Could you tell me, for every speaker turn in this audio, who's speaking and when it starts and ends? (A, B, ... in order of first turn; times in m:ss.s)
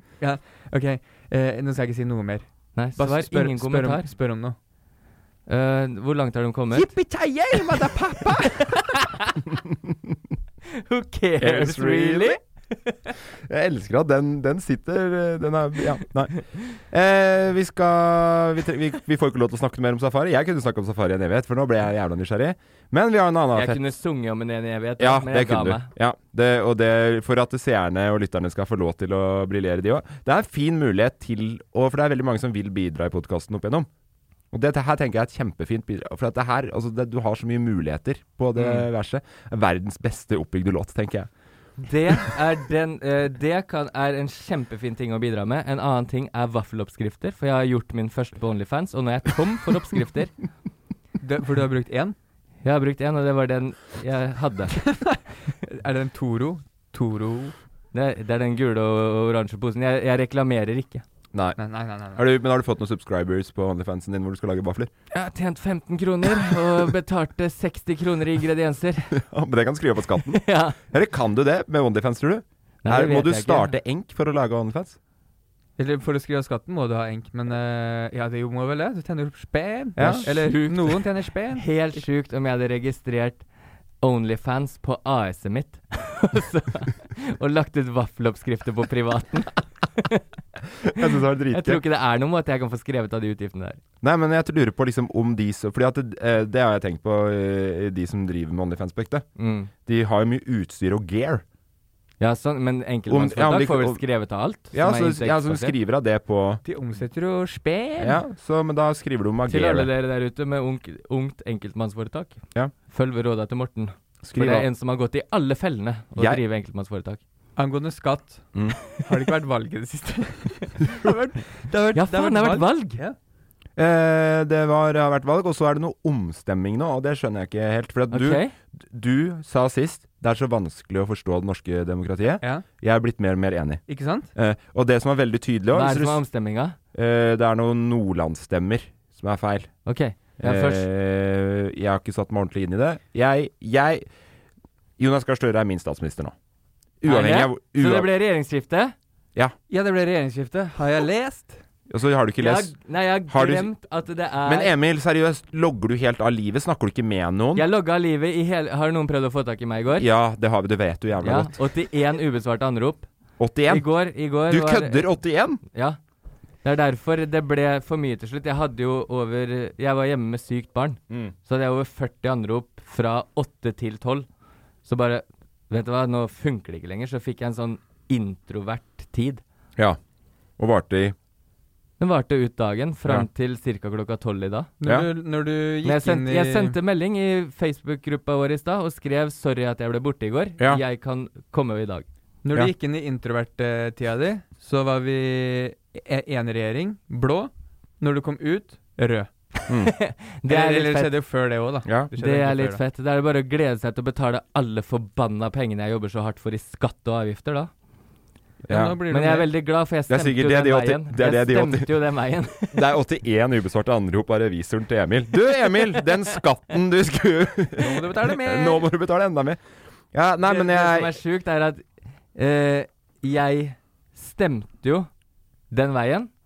0:00.2-0:04.6 A
0:02.8-0:04.1 B
0:05.5-0:06.9 B
0:06.8-0:08.6 C
0:07.3-0:08.4 A
0:08.6-0:09.4 B
0:10.8-0:13.1 B
0:11.4-0:12.4 C
0:13.5-0:23.9 C
0:23.5-0:25.9 B
0:25.0-0:33.9 C
0:34.5-0:41.3 C
0:41.8-0:50.3 B
0:51.2-0:52.2 A
0:52.6-0:54.8 B
0:54.8-0:57.6 A
0:57.9-1:01.0 B
1:01.3-1:01.6 C
1:01.6-1:02.2 A
1:02.1-1:04.9 C
1:05.1-1:09.2 B
1:09.1-1:15.0 C
1:10.3-1:10.8 B
1:12.8-1:13.8 B
1:15.8-1:21.7 A
1:20.0-1:20.3 C
1:20.0-1:23.4 B
1:24.0-1:30.2 B
1:30.9-1:31.8 C
1:31.5-1:33.8 B
1:34.0-1:39.3 C
1:39.4-1:39.7 B
1:39.9-1:41.4 C
1:42.2-1:45.8 B
1:43.1-1:44.0 C
1:44.7-1:46.6 C
1:46.6-1:48.2 A
1:48.0-1:49.9 C
1:49.5-1:57.2 B
1:54.2-1:54.7 C
1:56.2-1:56.4 C
1:57.6-2:03.2 A
2:02.0-2:03.0 B
2:03.8-2:13.8 C
2:08.1-2:08.5 B
2:13.9-2:14.3 A
2:14.3-2:16.2 C
2:15.7-2:16.8 B
2:16.9-2:19.7 C
2:19.8-2:20.8 B
2:20.4-2:24.1 C
2:25.0-2:26.3 C
2:27.0-2:28.1 C
2:27.0-2:28.9 B
2:29.7-2:31.6 A
2:31.9-2:33.7 C
2:32.4-2:34.7 B
2:34.4-2:37.6 C
2:37.5-2:40.1 B
2:40.0-2:41.5 C
2:41.2-2:43.1 B
2:43.4-2:45.6 C
2:43.7-2:45.1 B
2:45.7-2:46.0 B
2:46.6-2:54.3 B
2:54.8-2:59.4 B
3:00.6-3:01.2 C
3:02.0-3:04.7 B
3:04.8-3:06.8 A
3:05.8-3:12.1 B
3:12.4-3:19.3 A
3:19.7-3:19.9 C
3:19.9-3:21.1 B
3:20.5-3:22.8 A
3:22.2-3:27.7 B
3:28.7-3:29.0 C
3:28.7-3:29.5 A
3:29.1-3:32.9 B
3:30.1-3:32.0 C
3:32.7-3:39.6 C
3:37.8-3:38.9 A
3:40.1-3:41.2 C
3:40.5-3:41.8 B
3:42.4-3:45.1 B
3:45.7-3:46.3 B